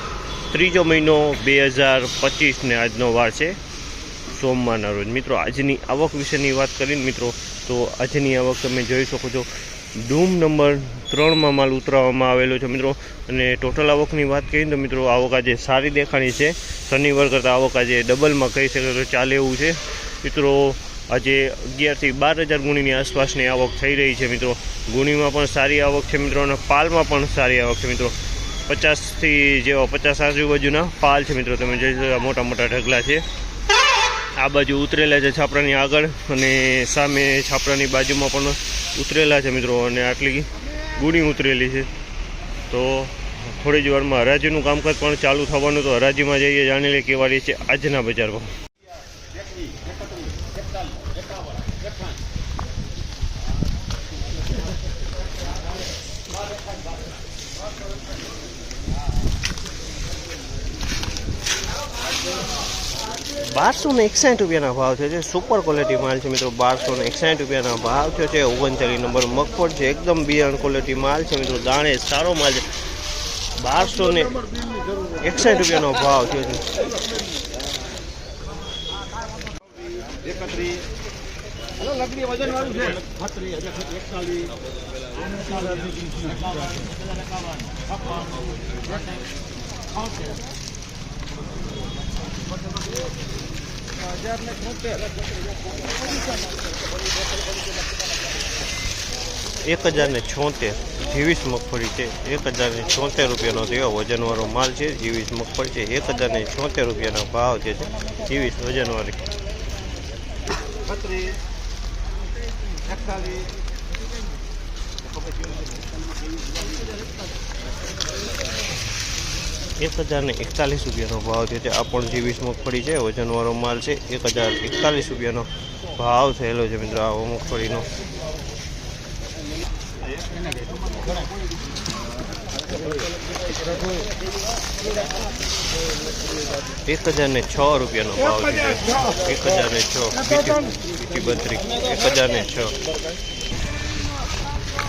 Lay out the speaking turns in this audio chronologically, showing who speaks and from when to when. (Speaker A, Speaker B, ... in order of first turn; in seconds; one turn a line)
Speaker A: 0.5-3.5
Speaker A: 4.3-28.1
Speaker A: 28.6-33.2
Speaker A: 34.3-41.9
Speaker A: 42.7-48.5
Speaker B: 49.7-51.1
Speaker A: 63.4-72.7
Speaker A: 73.6-74.6
Speaker A: 75.2-76.7
Speaker B: 80.2-80.8
Speaker B: 82.0-84.5
Speaker B: 85.3-86.7
Speaker A: 99.6-109.2
Speaker B: 110.9-111.3
Speaker B: 112.8-113.5
Speaker B: 115.1-115.5
Speaker A: 119.8-127.9
Speaker B: 130.7-131.1
Speaker B: 133.6-134.0
Speaker A: 136.8-142.8